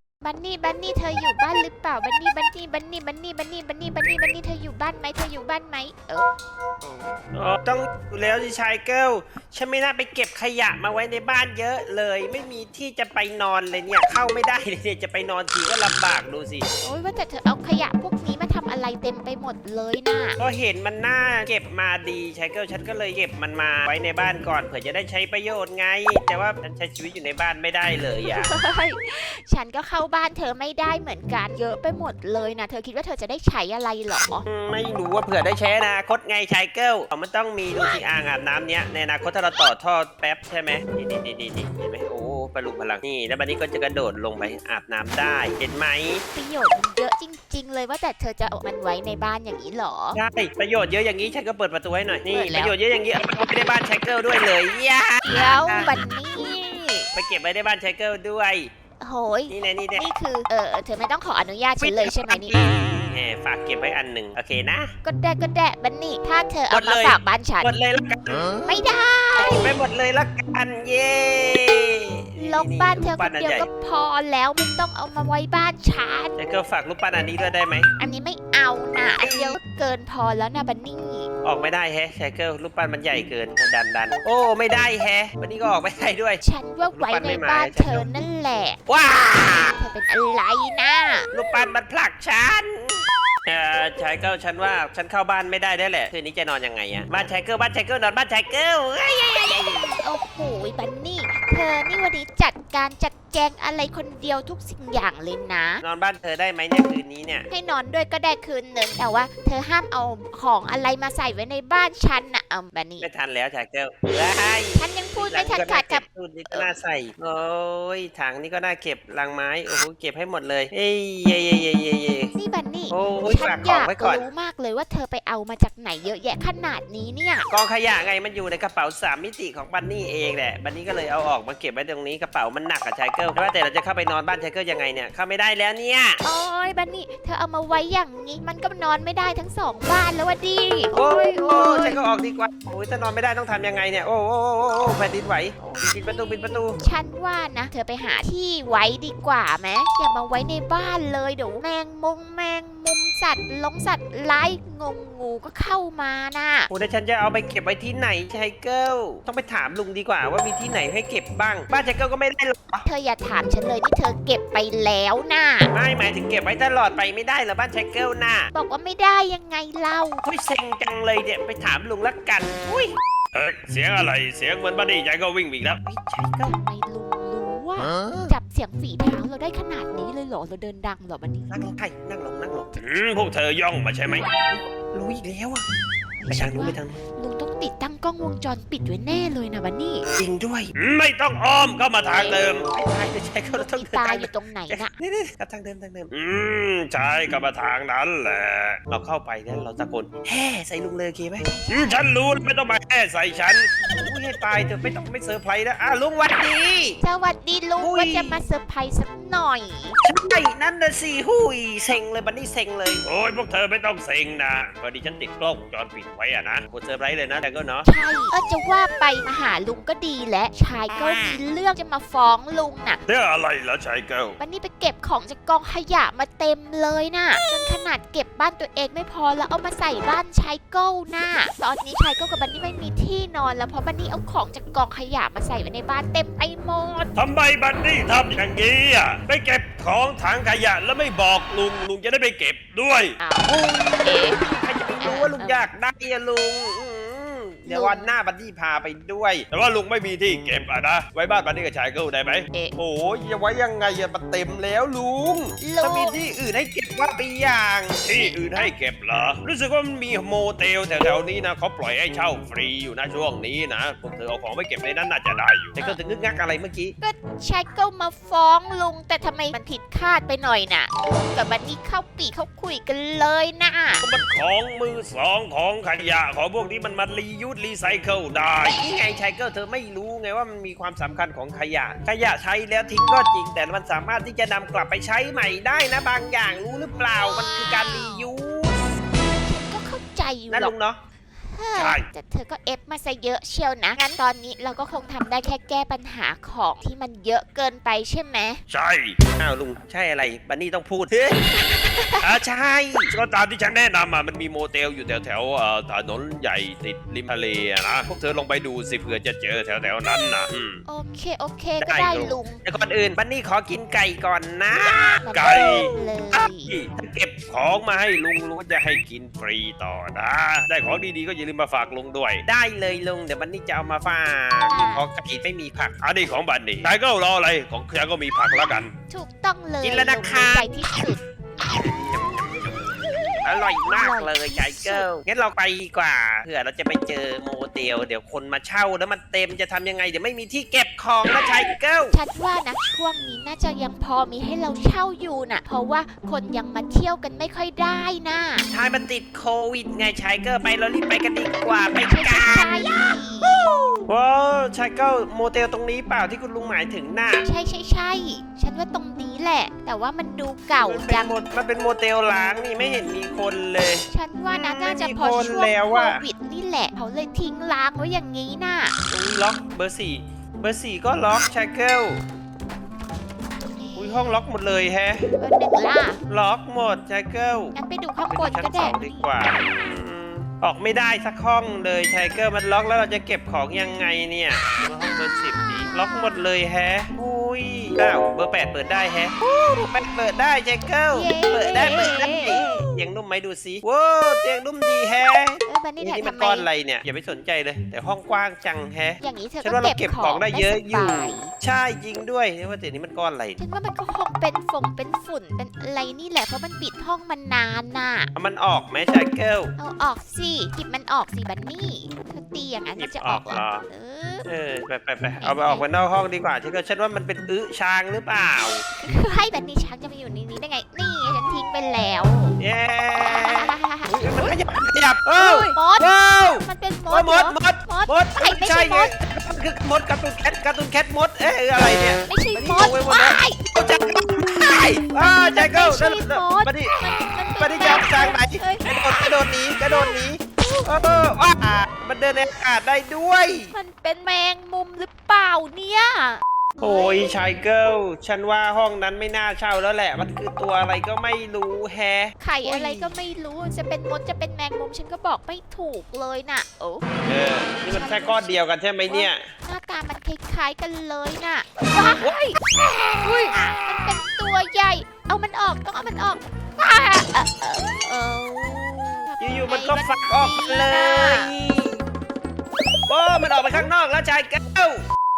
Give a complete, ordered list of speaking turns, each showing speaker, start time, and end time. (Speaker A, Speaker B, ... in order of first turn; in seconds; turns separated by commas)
Speaker A: 0.2-6.3, Speaker B: 7.3-16.7, Speaker A: 16.8-20.4, Speaker B: 20.4-28.5, Speaker A: 28.2-34.5, Speaker B: 34.5-46.2, Speaker A: 37.7-38.0, Speaker A: 46.3-50.2, Speaker B: 50.1-56.0, Speaker A: 52.3-52.7, Speaker A: 55.2-57.1, Speaker B: 57.1-58.7, Speaker A: 59.0-62.6, Speaker B: 59.5-60.1, Speaker B: 61.8-64.9, Speaker A: 65.0-67.8, Speaker B: 66.7-68.8, Speaker A: 68.7-69.8, Speaker B: 69.4-73.7, Speaker A: 72.4-76.4, Speaker B: 76.4-77.9, Speaker A: 78.0-81.3, Speaker B: 79.2-79.6, Speaker B: 81.4-86.4, Speaker A: 86.4-88.8, Speaker B: 86.9-88.1, Speaker B: 88.9-89.8, Speaker A: 89.4-91.3, Speaker B: 91.3-100.0, Speaker A: 100.0-105.8, Speaker B: 105.8-107.5, Speaker A: 107.5-113.1, Speaker B: 113.0-122.3, Speaker A: 114.8-116.8, Speaker A: 122.3-127.5, Speaker B: 122.9-124.2, Speaker B: 127.5-136.2, Speaker A: 136.2-142.0, Speaker B: 140.9-146.8, Speaker A: 145.6-156.7, Speaker B: 156.7-162.8, Speaker A: 162.8-165.7, Speaker B: 165.7-168.5, Speaker A: 168.5-170.2, Speaker B: 170.2-172.9, Speaker C: 173.3-175.8, Speaker B: 175.7-176.6, Speaker A: 176.4-181.7, Speaker B: 177.9-178.3, Speaker B: 181.5-182.8, Speaker C: 182.8-184.1, Speaker B: 183.3-185.6, Speaker A: 186.2-190.1, Speaker B: 186.3-187.0, Speaker B: 190.1-190.7, Speaker C: 190.8-192.3, Speaker A: 192.1-192.4, Speaker B: 192.2-196.1, Speaker A: 193.5-194.9, Speaker C: 196.1-198.8, Speaker B: 196.7-198.2, Speaker B: 198.8-201.7, Speaker A: 201.4-202.1, Speaker C: 201.7-203.7, Speaker A: 203.8-204.1, Speaker B: 203.9-207.0, Speaker A: 207.0-210.0, Speaker B: 207.8-208.5, Speaker B: 210.0-213.0, Speaker C: 213.0-214.8, Speaker B: 214.7-217.9, Speaker A: 217.8-223.0, Speaker C: 223.1-224.4, Speaker A: 224.4-237.1, Speaker C: 237.2-243.1, Speaker A: 243.2-244.5, Speaker B: 243.5-249.5, Speaker A: 245.0-245.7, Speaker A: 247.7-248.2, Speaker C: 249.5-254.4, Speaker B: 253.5-258.7, Speaker A: 255.6-256.3, Speaker C: 258.0-259.5, Speaker A: 258.1-258.7, Speaker B: 259.4-261.1, Speaker C: 261.1-265.8, Speaker B: 262.2-262.5, Speaker B: 263.2-266.9, Speaker A: 267.0-274.0, Speaker C: 274.0-278.8, Speaker B: 278.7-288.8, Speaker A: 287.2-288.3, Speaker A: 289.4-290.8, Speaker B: 290.5-291.0, Speaker A: 291.4-298.6, Speaker C: 291.8-292.1, Speaker C: 298.7-299.2, Speaker B: 299.4-301.4, Speaker A: 301.5-302.3, Speaker B: 302.2-303.1, Speaker C: 303.1-310.5, Speaker B: 310.5-310.8, Speaker A: 310.9-312.6, Speaker B: 311.8-317.5, Speaker A: 315.2-316.8, Speaker C: 315.3-315.9, Speaker C: 317.4-322.4, Speaker B: 322.4-326.9, Speaker A: 324.7-325.1, Speaker C: 326.1-328.9, Speaker A: 329.1-331.2, Speaker B: 329.8-330.8, Speaker B: 331.6-332.9, Speaker B: 333.4-342.2, Speaker A: 333.9-335.1, Speaker A: 342.1-348.7, Speaker B: 348.7-357.4, Speaker A: 352.1-353.5, Speaker A: 357.4-361.3, Speaker B: 360.8-366.2, Speaker A: 364.1-368.9, Speaker B: 369.1-372.2, Speaker A: 373.6-374.4, Speaker B: 373.9-375.3, Speaker A: 375.4-376.2, Speaker B: 376.3-377.8, Speaker A: 377.7-379.3, Speaker B: 378.3-403.6, Speaker A: 385.6-386.5, Speaker A: 391.1-392.9, Speaker A: 395.6-396.7, Speaker A: 399.2-401.5, Speaker A: 403.6-408.3, Speaker B: 408.4-409.7, Speaker A: 409.8-414.5, Speaker B: 412.9-413.9, Speaker B: 414.4-418.8, Speaker A: 415.4-415.9, Speaker A: 419.0-422.6, Speaker B: 422.6-443.7, Speaker A: 423.2-424.6, Speaker A: 425.4-429.1, Speaker A: 432.3-433.6, Speaker A: 435.1-441.1, Speaker A: 443.7-447.4, Speaker B: 446.8-453.1, Speaker A: 452.4-457.1, Speaker B: 457.2-459.5, Speaker A: 457.8-462.6, Speaker B: 462.2-462.5, Speaker A: 463.1-471.5, Speaker B: 469.4-472.0, Speaker B: 473.1-475.1